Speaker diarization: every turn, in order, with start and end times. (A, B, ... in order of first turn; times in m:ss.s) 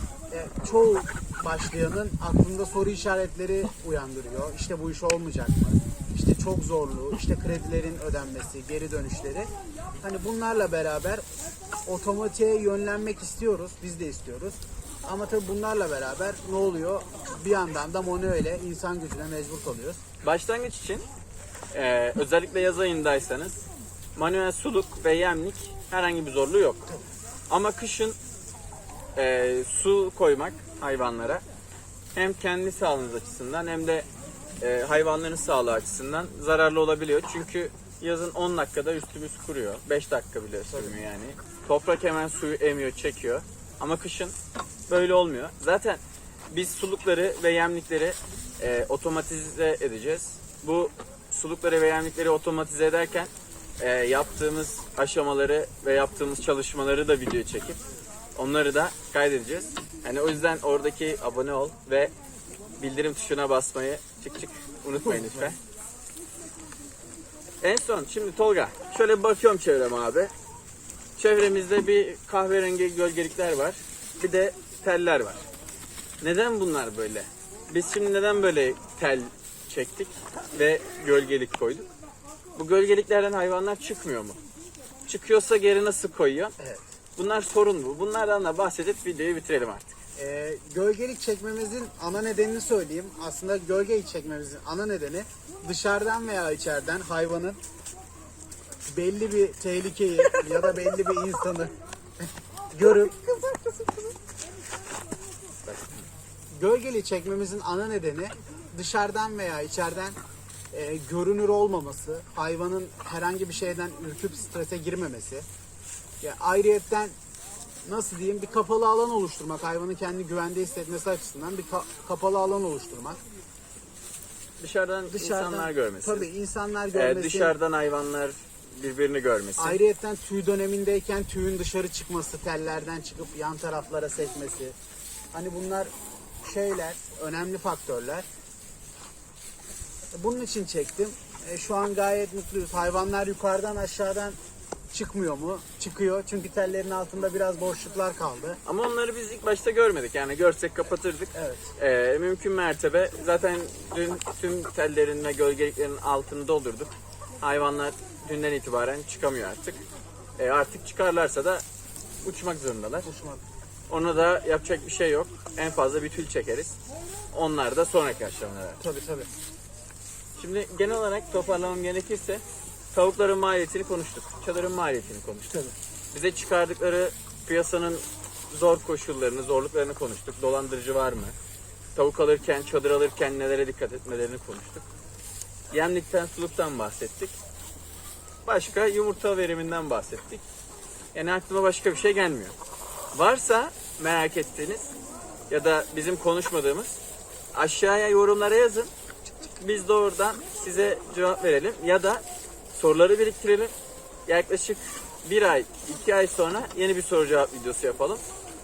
0:00.3-0:09.5 A
0:10.0-0:11.2 A
0:11.9-0:20.0 A
0:20.2-0:21.1 B
0:21.7-0:26.9 B
0:27.5-0:28.2 B
0:29.2-0:31.4 B
0:32.1-0:34.1 B
0:34.6-0:44.4 B
0:44.9-0:57.8 B
0:58.4-1:02.1 B
1:02.8-1:05.6 B
1:05.0-1:05.6 A
1:07.6-1:10.3 B
1:11.2-1:15.4 B
1:16.2-1:21.9 B
1:22.6-1:24.4 B
1:25.0-1:26.6 B
1:26.6-1:27.0 A
1:27.2-1:30.0 B
1:30.2-1:37.6 A
1:38.9-1:41.7 A
1:42.7-1:44.1 A
1:45.7-1:46.1 B
1:46.5-1:50.2 A
1:50.7-1:55.5 A
1:56.2-1:57.2 A
1:57.8-2:03.2 A
2:04.6-2:06.3 B
2:05.1-2:07.6 A
2:06.9-2:09.8 B
2:09.6-2:14.8 A
2:15.3-2:15.9 A
2:16.4-2:18.3 A
2:20.2-2:24.4 A
2:24.9-2:28.6 A
2:28.6-2:39.8 B
2:31.4-2:31.8 A
2:40.4-2:41.6 B
2:42.2-2:43.1 B
2:43.1-2:43.4 A
2:43.9-2:46.8 B
2:47.3-2:48.8 B
2:48.8-2:49.3 A
2:50.4-2:55.6 B
2:56.1-3:01.4 B
3:02.0-3:04.9 B
3:05.7-3:07.4 B
3:08.4-3:10.4 B
3:11.1-3:12.6 B
3:13.1-3:15.0 B
3:15.5-3:17.0 B
3:17.5-3:18.9 B
3:19.6-3:23.7 B
3:24.3-3:28.2 B